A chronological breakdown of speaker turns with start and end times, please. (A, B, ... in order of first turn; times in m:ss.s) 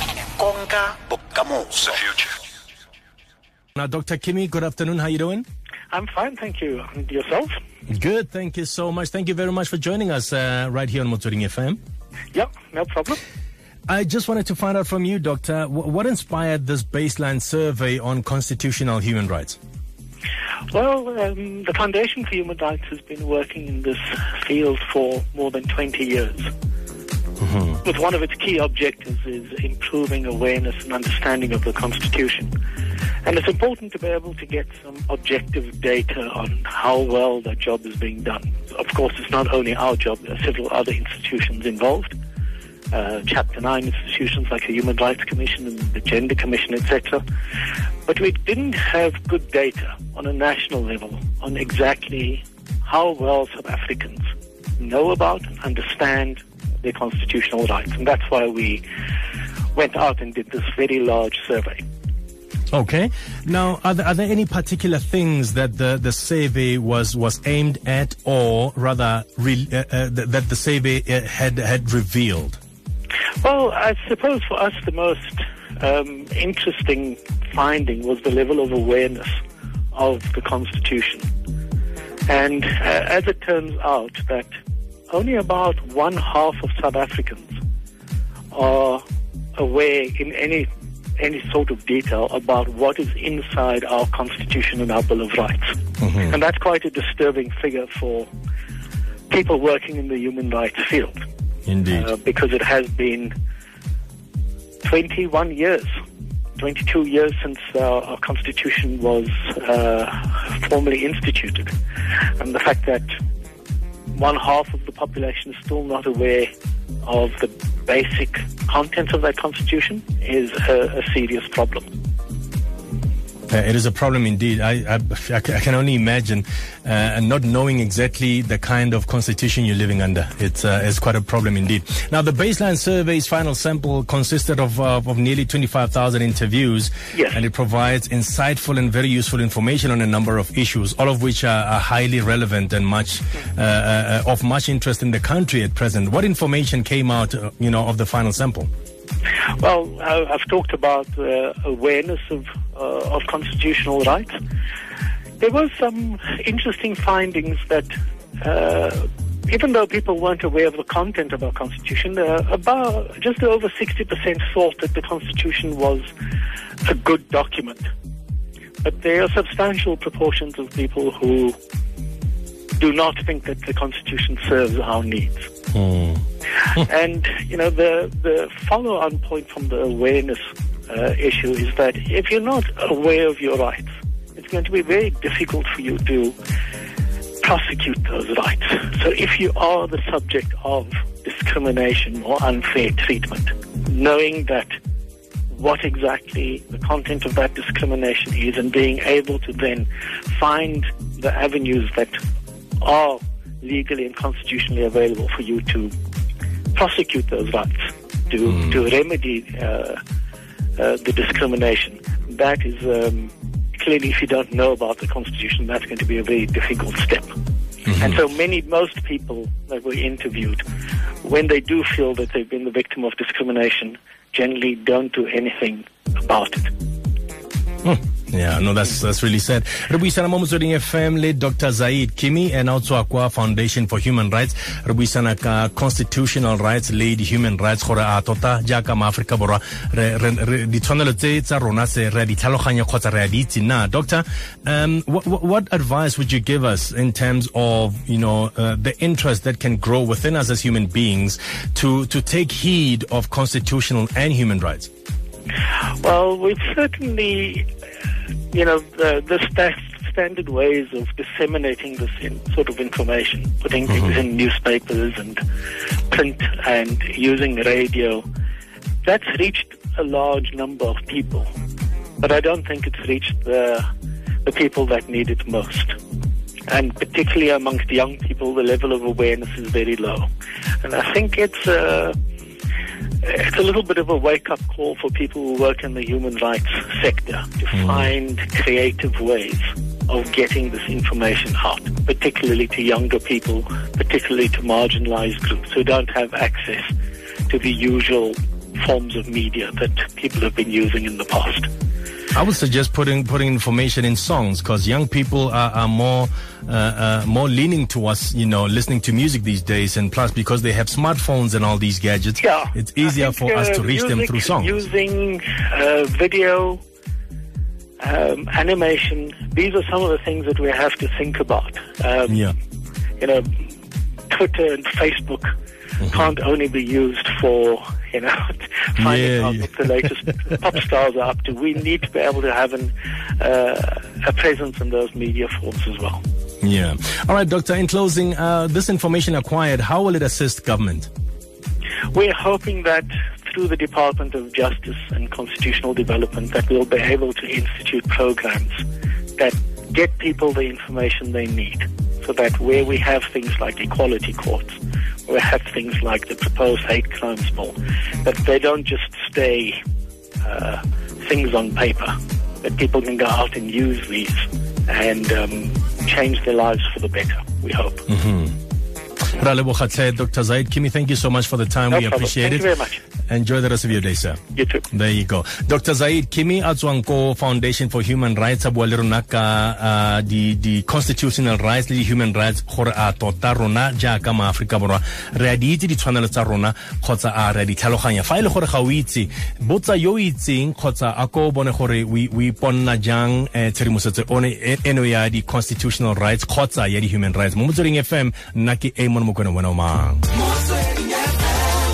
0:00.4-0:02.3 A
0:03.8-0:05.4 B
0:05.9-0:07.5 C
0:07.9-0:11.8 B
0:12.3-0:13.2 C
0:13.9-0:19.6 B
0:20.7-0:26.5 C
0:27.4-0:27.8 B
0:27.8-0:32.5 C
0:33.2-0:42.2 C
0:42.9-0:47.2 C
0:48.0-0:54.2 C
0:54.8-0:58.8 C
0:59.7-1:01.8 C
1:02.7-1:12.6 B
1:13.4-1:19.4 C
1:19.9-1:21.3 C
1:22.3-1:24.5 C
1:25.1-1:27.6 C
1:28.5-1:29.0 C
1:29.6-1:38.3 C
1:36.0-1:36.3 B
1:39.3-1:41.2 C
1:41.7-1:42.1 B
1:41.9-1:43.3 C
1:44.8-1:45.9 C
1:46.6-1:51.7 C
1:52.4-1:53.1 C
1:54.1-1:56.5 C
1:57.0-2:01.9 C
2:03.5-2:28.7 B
2:17.1-2:17.4 C
2:29.6-2:34.3 C
2:35.4-2:37.9 C
2:38.4-2:46.1 C
2:46.8-2:47.9 C
2:48.8-2:51.6 C
2:52.8-2:55.5 C
2:55.7-2:56.2 B
2:56.6-3:06.4 C
3:07.4-3:14.7 C
3:15.5-3:22.2 C
3:22.8-3:25.9 C
3:26.7-3:30.0 C
3:30.8-3:37.4 C
3:37.9-3:40.6 C
3:41.2-3:46.7 C
3:47.8-4:14.9 B
4:16.0-4:17.7 C
4:18.5-4:25.4 C
4:26.1-4:28.2 C
4:29.0-4:31.5 C
4:32.2-4:33.8 C
4:34.4-4:36.0 C
4:36.7-4:40.3 C
4:40.8-4:42.2 C
4:43.2-4:56.9 C
4:47.8-4:48.0 B
4:57.5-5:01.7 C
5:02.4-5:14.8 B
5:12.4-5:16.8 C
5:18.0-5:22.5 C
5:22.3-5:22.5 B
5:23.2-5:23.6 C
5:24.3-5:36.2 C
5:29.0-5:30.1 B
5:36.6-5:41.1 B
5:42.1-5:48.8 C
5:49.4-5:59.8 C
6:00.4-6:08.1 C
6:08.1-6:08.6 B
6:09.4-6:12.7 B
6:11.9-6:13.0 C
6:13.3-6:14.4 B
6:14.5-6:14.9 C
6:14.9-6:40.3 B
6:40.6-6:41.3 C